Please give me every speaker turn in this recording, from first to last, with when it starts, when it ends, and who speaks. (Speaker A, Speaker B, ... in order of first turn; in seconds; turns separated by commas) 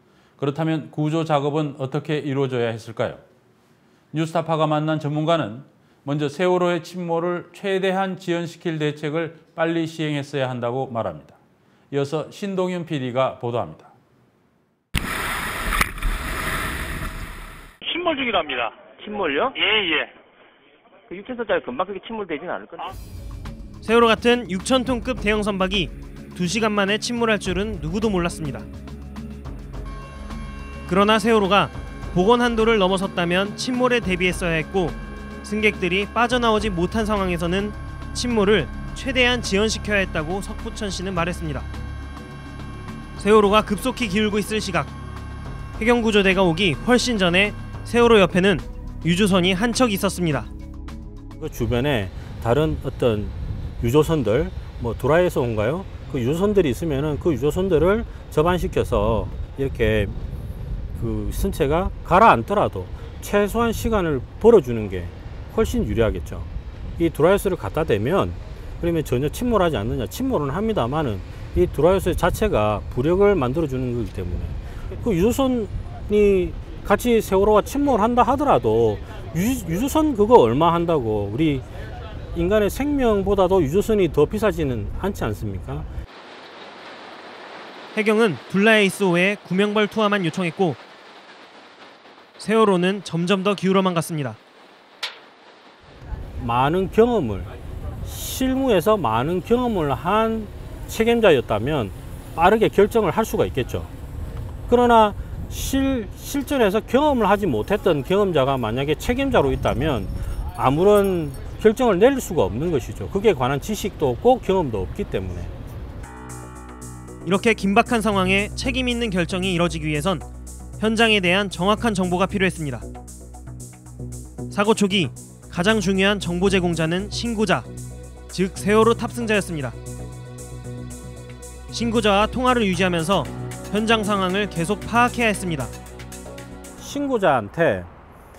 Speaker A: 0.4-3.2, Speaker A: 4.1-11.3, Speaker A: 11.9-13.9, Speaker B: 18.8-19.7, Speaker B: 21.1-22.9, Speaker C: 23.8-28.6, Speaker C: 30.9-41.7, Speaker C: 43.2-44.9, Speaker C: 45.8-50.5, Speaker D: 51.4-60.1, Speaker D: 61.0-81.7, Speaker D: 82.3-85.9, Speaker C: 87.9-90.8, Speaker C: 92.4-94.4, Speaker D: 96.4-97.5, Speaker D: 98.0-103.9, Speaker D: 104.7-115.5, Speaker C: 117.2-120.2, Speaker C: 120.8-122.8, Speaker C: 124.5-127.7, Speaker C: 128.3-129.8, Speaker C: 131.7-135.7, Speaker D: 136.8-137.9